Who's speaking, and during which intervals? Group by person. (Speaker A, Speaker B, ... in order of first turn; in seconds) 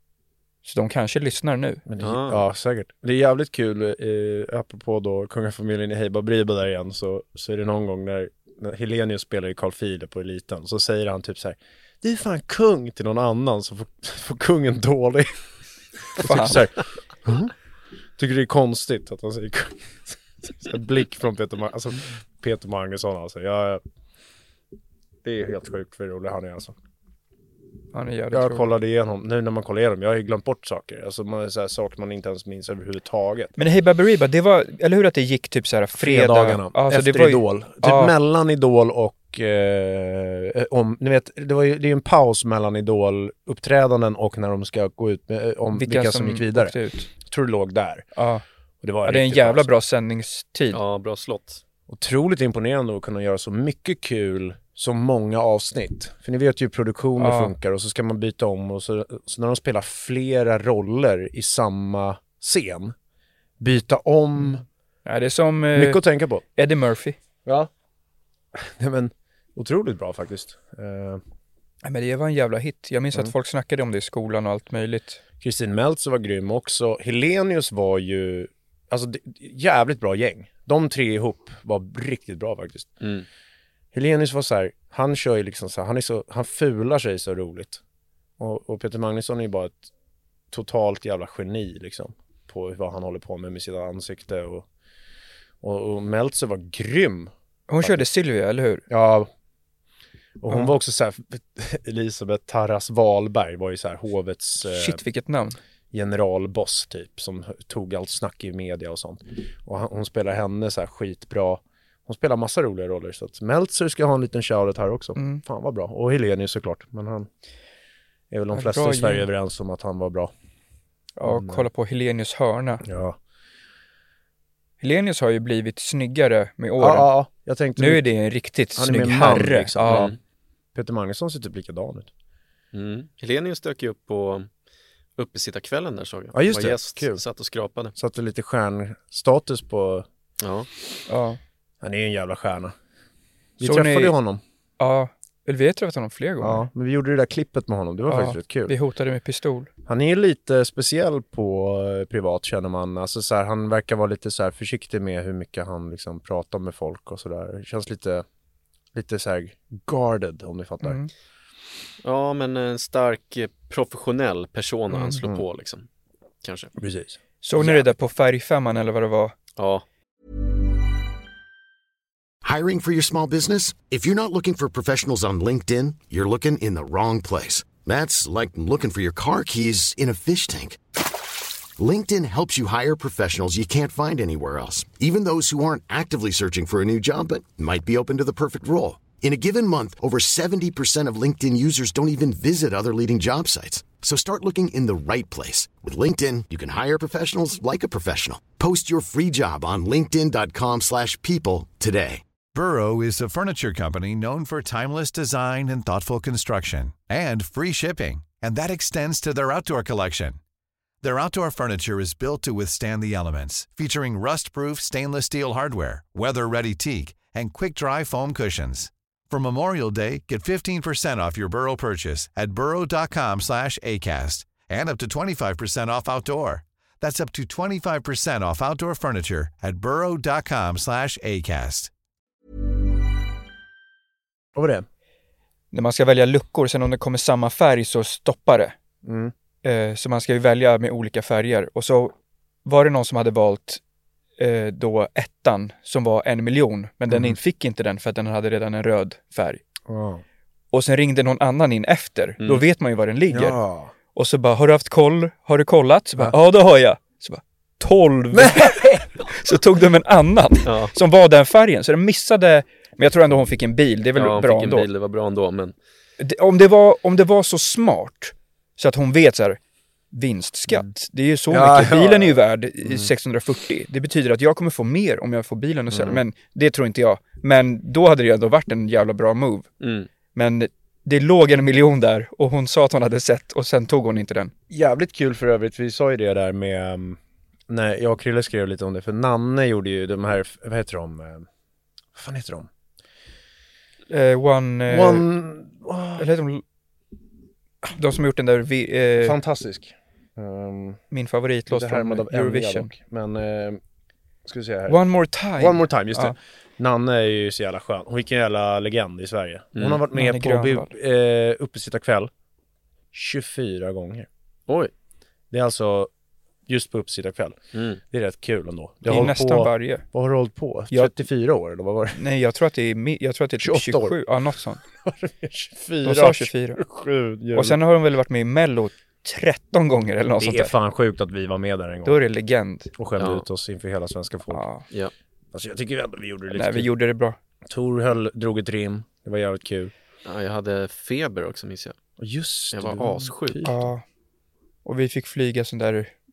Speaker A: 0.7-1.8, 16.2-16.7, 27.9-28.7, 33.6-38.1, 45.7-47.1, 48.1-48.4, 49.0-50.8, 57.2-57.5, 65.0-66.0, 66.5-67.2, 71.8-75.2, 97.7-98.8, 104.6-105.6, 115.2-115.4, 118.5-119.3, 121.2-122.8, 124.8-127.1, 127.8-130.1, 141.1-141.4, 143.6-144.2, 144.8-146.7, 148.1-149.7, 160.8-161.1, 164.9-165.2, 167.4-169.3, 235.7-238.8, 239.6-243.8, 244.4-249.6, 250.7-253.6, 254.1-264.9, 266.2-269.6, 270.1-279.7, 280.4-284.5, 294.1-295.3, 296.2-296.6, 297.9-299.4, 301.1-302.9, 304.9-306.4, 310.1-310.9, 319.1-320.1, 322.2-324.8, 326.0-326.8, 327.5-330.7, 332.1-332.9, 334.5-334.8, 336.5-337.4, 343.6-344.0, 344.9-346.1
Speaker B: 1.9-15.3, 16.2-17.5, 18.2-23.8, 25.2-26.8, 28.3-33.5, 36.0-48.1, 48.8-49.7, 51.9-63.0, 63.6-64.7, 65.7-66.4, 68.5-71.2, 75.4-82.9, 83.9-87.8, 88.4-89.9, 90.5-94.7, 95.6-98.0, 98.9-99.3, 100.4-105.0, 105.9-117.3, 118.3-120.3, 121.2-121.7, 122.8-123.2, 126.8-128.1, 128.8-130.2, 130.8-132.1, 136.3-137.2, 138.0-140.1, 141.8-142.8, 143.6-144.4, 146.4-148.8, 149.9-158.2, 158.9-161.0, 166.8-167.8, 234.6-234.8, 239.0-239.3, 247.1-247.4, 249.9-250.2, 253.3-253.9, 258.3-259.1, 271.5-273.1, 284.7-291.5, 292.1-292.7, 294.9-296.3, 299.2-301.0, 301.7-303.8, 304.5-305.0, 305.6-312.3, 313.1-314.3, 315.5-316.1, 316.7-317.6, 318.1-322.2, 323.6-324.2, 324.9-327.8, 330.4-332.2, 333.0-334.7, 335.5-336.9, 337.7-339.9, 342.2-343.9
Speaker C: 2.0-2.4, 50.7-51.6, 129.9-130.2, 132.7-134.5, 135.2-137.9, 140.4-140.7, 162.0-165.9, 166.4-166.7, 169.6-169.8, 260.6-260.9, 264.2-265.8, 279.8-280.1, 309.8-310.0, 317.7-318.0, 333.2-333.4, 340.2-342.0, 342.7-343.6
Speaker D: 172.4-180.8, 181.8-202.2
Speaker E: 202.5-210.4, 211.0-231.9